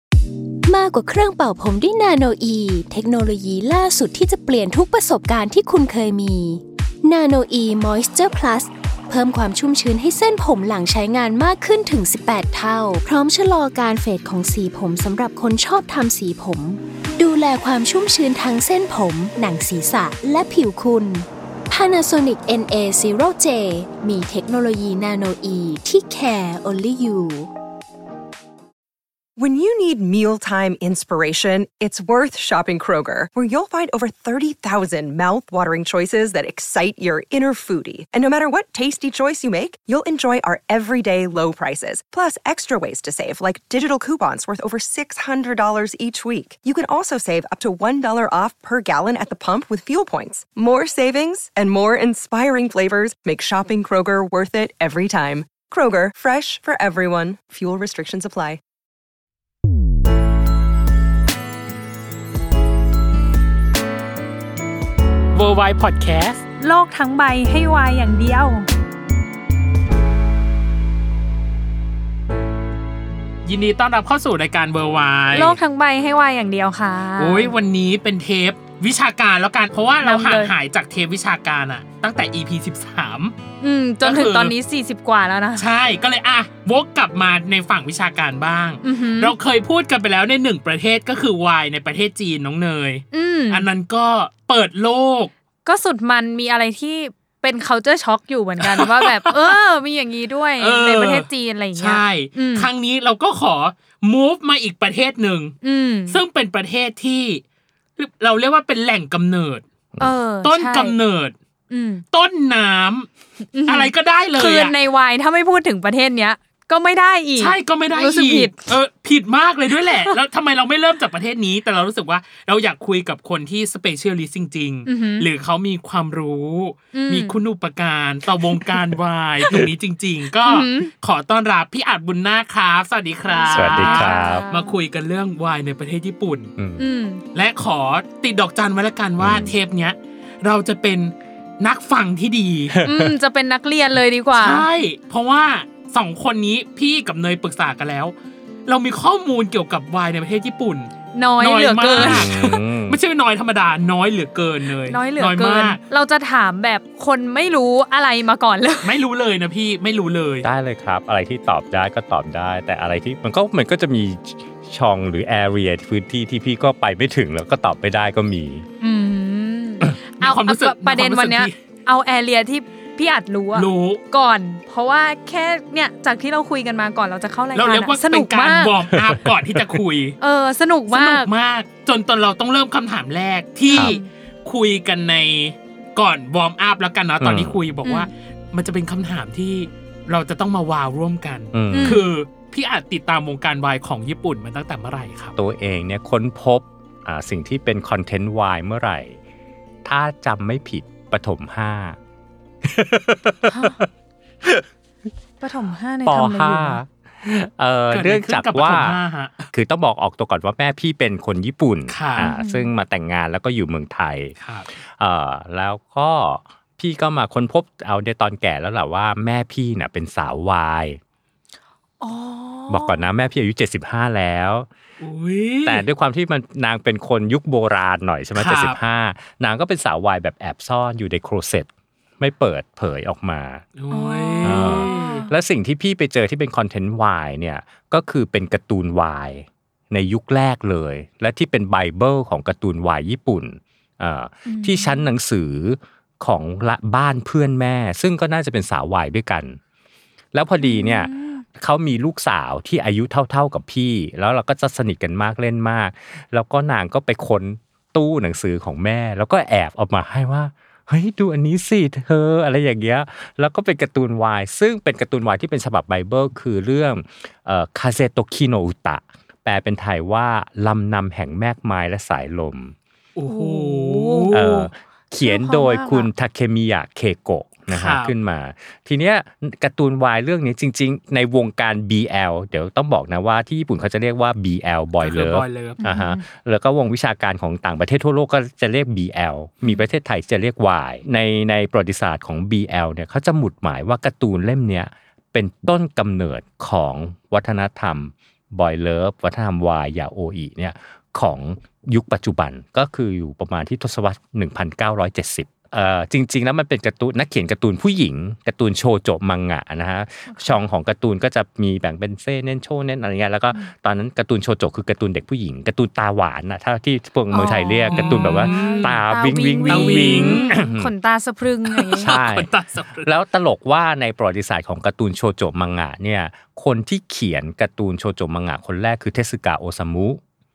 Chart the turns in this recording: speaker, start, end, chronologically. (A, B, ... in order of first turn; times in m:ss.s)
0:00.7-0:27.5 A
0:29.4-0:58.6 B
1:05.3-1:06.4 C
1:06.6-1:08.7 D
1:13.4-1:15.6 C
1:15.3-1:17.5 D
1:17.1-1:23.3 C
1:20.0-1:20.5 D
1:23.6-1:25.6 D
1:24.0-1:24.6 C
1:25.5-1:35.3 C
1:28.8-1:29.3 D
1:33.1-1:33.7 D
1:35.6-1:42.7 D
1:38.6-1:39.6 C
1:40.6-1:45.5 C
1:45.6-1:46.2 D
1:46.1-1:47.4 C
1:48.0-1:49.6 C
1:50.0-1:51.0 D
1:50.4-1:51.3 C
1:51.7-1:52.0 D
1:52.1-1:53.1 C
1:53.5-1:58.6 D
1:53.7-1:54.7 C
1:57.4-2:16.5 C
1:59.8-2:00.1 D
2:04.8-2:05.3 D
2:06.9-2:07.4 D
2:10.4-2:10.9 D
2:13.3-2:14.7 D
2:13.5-2:14.4 E
2:16.6-2:16.8 E
2:16.8-2:17.2 D
2:17.3-2:22.8 C
2:19.2-2:19.6 E
2:22.7-2:23.1 E
2:22.8-2:24.6 D
2:24.3-2:28.1 C
2:28.6-2:35.8 C
2:31.1-2:32.3 D
2:31.9-2:33.0 E
2:34.9-2:39.0 D
2:38.8-2:40.5 C
2:40.4-2:48.6 E
2:48.8-2:58.8 D
2:50.2-2:51.6 C
2:53.5-2:54.0 C
2:57.5-3:00.2 C
2:58.9-2:59.8 E
3:00.2-3:01.3 D
3:00.9-3:15.4 C
3:03.7-3:04.1 D
3:03.7-3:04.0 E
3:07.2-3:07.6 E
3:07.8-3:08.1 D
3:11.5-3:12.0 E
3:11.7-3:12.0 D
3:15.4-3:19.2 E
3:19.8-3:22.0 E
3:22.8-3:23.5 E
3:23.5-3:23.8 D
3:25.4-3:26.8 D
3:26.0-3:29.0 E
3:27.9-3:29.5 C
3:29.5-3:34.3 E
3:31.9-3:32.3 C
3:32.2-3:32.7 D
3:34.4-3:34.7 C
3:34.8-3:41.0 E
3:42.0-3:43.0 D
3:42.7-3:44.7 E
3:45.0-3:45.8 C
3:45.6-3:53.6 E
3:48.3-3:48.8 C
3:53.8-3:55.3 C
3:53.9-3:55.3 D
3:54.4-4:09.6 E
4:04.4-4:05.1 D
4:10.3-4:32.7 E
4:10.6-4:11.4 D
4:33.1-4:34.7 C
4:33.3-4:34.3 D
4:34.3-5:20.9 E
4:35.2-4:36.1 D
4:37.7-4:38.1 C
4:45.0-4:45.8 C
4:45.8-4:46.2 D
5:10.3-5:10.6 D
5:17.3-5:22.1 D
5:17.9-5:19.0 C
5:19.6-5:20.6 C
5:21.6-5:23.1 C
5:22.0-5:22.5 E
5:23.0-5:30.2 E